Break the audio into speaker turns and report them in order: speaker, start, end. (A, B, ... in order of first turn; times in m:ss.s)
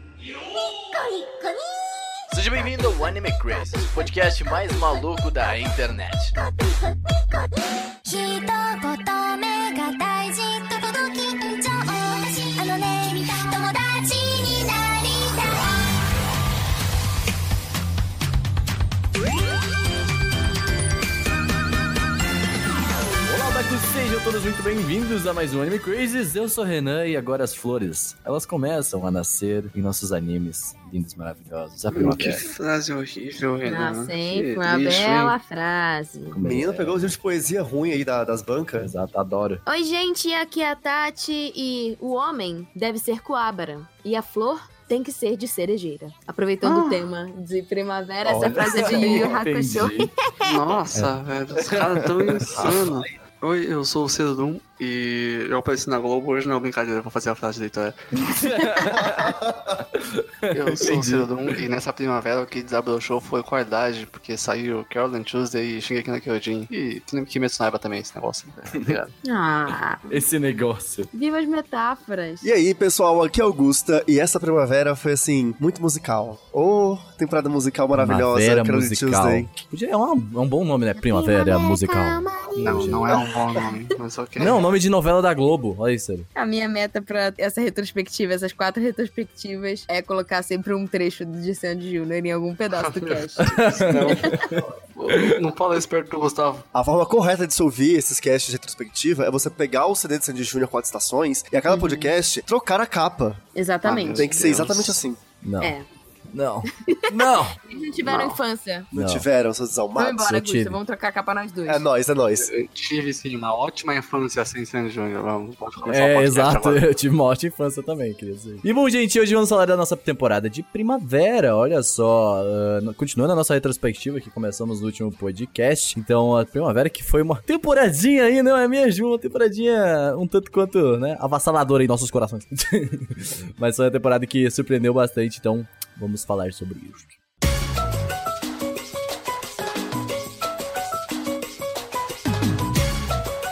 0:00.8-0:02.2 A
0:02.3-0:06.3 B
0:08.0-0:16.0 A
0:23.2-0:32.4 B
0:31.9-0:35.4 C
0:33.6-0:36.4 D
0:36.3-0:37.2 B
0:36.4-0:38.9 E
0:38.8-0:39.6 B
0:39.7-0:50.6 D
0:46.6-0:47.1 B
0:48.2-0:48.6 E
0:48.3-0:50.1 B
0:49.7-0:58.0 C
0:50.9-0:53.1 B
0:58.2-0:58.9 D
0:58.4-1:01.6 B
0:59.1-0:59.7 E
1:00.5-1:09.1 C
1:09.2-1:10.1 D
1:10.1-1:11.1 B
1:11.1-1:12.5 D
1:12.4-1:19.5 E
1:17.9-1:22.2 B
1:21.0-1:23.8 D
1:22.6-1:24.6 C
1:22.8-1:23.1 B
1:24.4-1:26.3 B
1:26.4-1:34.6 D
1:32.8-1:34.4 C
1:33.4-1:35.4 B
1:34.9-1:36.6 C
1:36.7-1:43.4 E
1:41.7-1:42.1 D
1:43.6-1:44.4 D
1:43.8-1:45.0 C
1:44.1-1:45.2 E
1:45.4-1:45.7 B
1:45.6-1:45.9 D
1:46.3-1:47.6 B
1:46.7-1:48.9 D
1:48.0-1:48.4 C
1:48.9-1:50.2 E
1:48.9-1:49.3 B
1:50.0-1:51.8 D
1:50.2-1:50.8 B
1:51.7-1:52.5 E
1:52.4-1:56.8 C
1:55.9-2:17.2 B